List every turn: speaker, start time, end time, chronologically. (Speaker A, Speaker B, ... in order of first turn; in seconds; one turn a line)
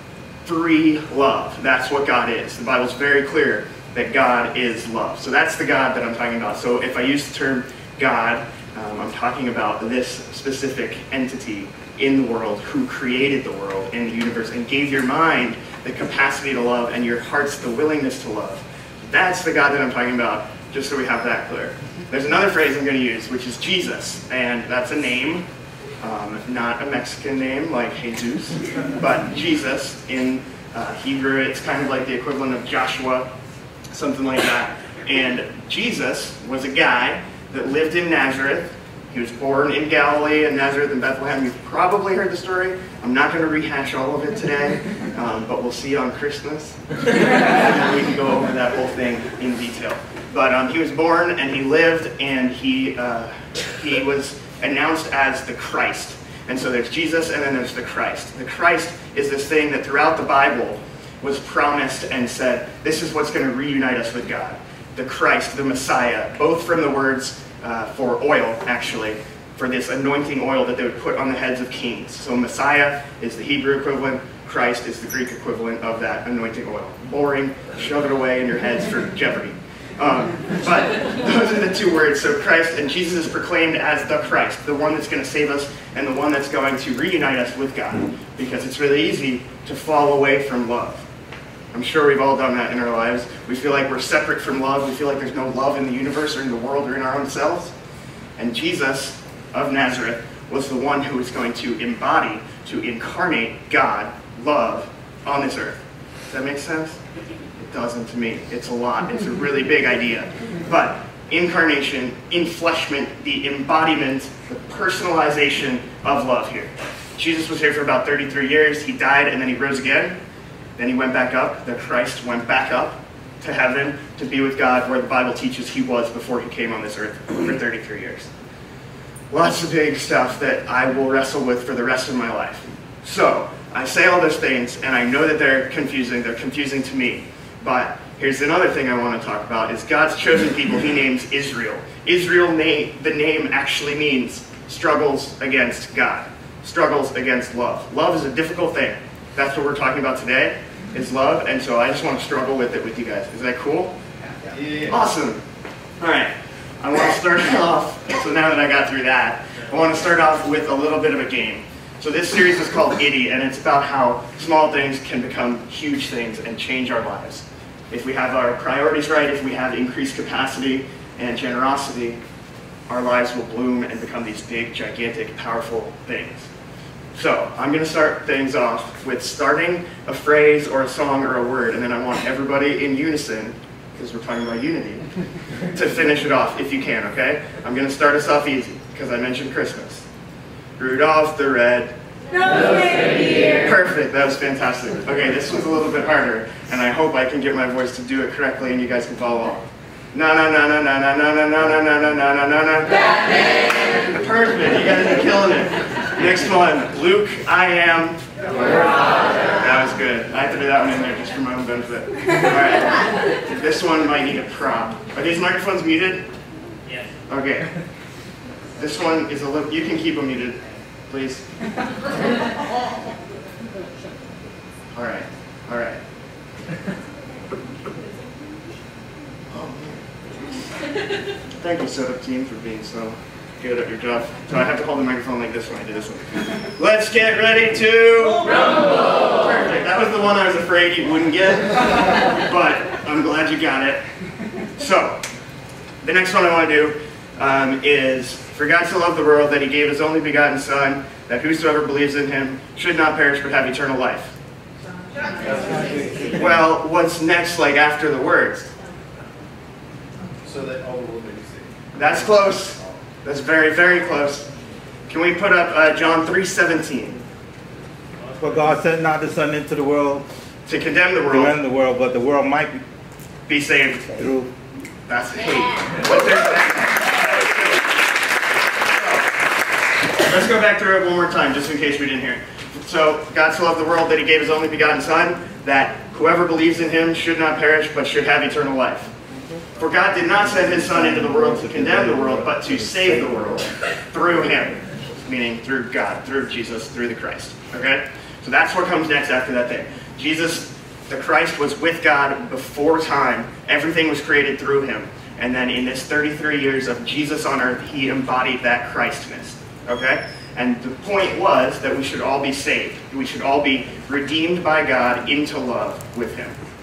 Speaker A: 0.5-25.4
Speaker A: 26.0-33.3
Speaker A: 33.9-91.0
Speaker A: 91.7-97.8
Speaker A: 98.4-107.0
Speaker A: 107.6-120.2
Speaker A: 120.8-128.3
Speaker A: 129.3-153.9
Speaker B: 154.5-154.9
Speaker A: 154.9-155.4
Speaker A: 156.0-172.2
Speaker A: 172.9-176.5
Speaker A: 177.1-185.0
Speaker A: 185.7-190.1
Speaker A: 190.8-191.9
Speaker A: 192.5-216.2
Speaker A: 217.3-217.7
Speaker A: 218.8-221.4
Speaker A: 224.9-226.0
Speaker A: 229.5-230.0
Speaker A: 231.6-244.0
Speaker A: 244.8-245.2
Speaker A: 246.0-254.3
Speaker B: 255.4-256.3
Speaker A: 256.3-258.7
Speaker B: 260.4-261.8
Speaker A: 261.9-264.5
Speaker B: 262.4-262.9
Speaker A: 265.1-267.2
Speaker C: 268.3-270.2
Speaker A: 270.7-271.6
Speaker C: 271.3-272.8
Speaker A: 273.5-274.1
Speaker C: 274.2-274.5
Speaker A: 275.1-277.9
Speaker A: 278.9-279.2
Speaker A: 280.2-289.1
Speaker A: 289.8-316.6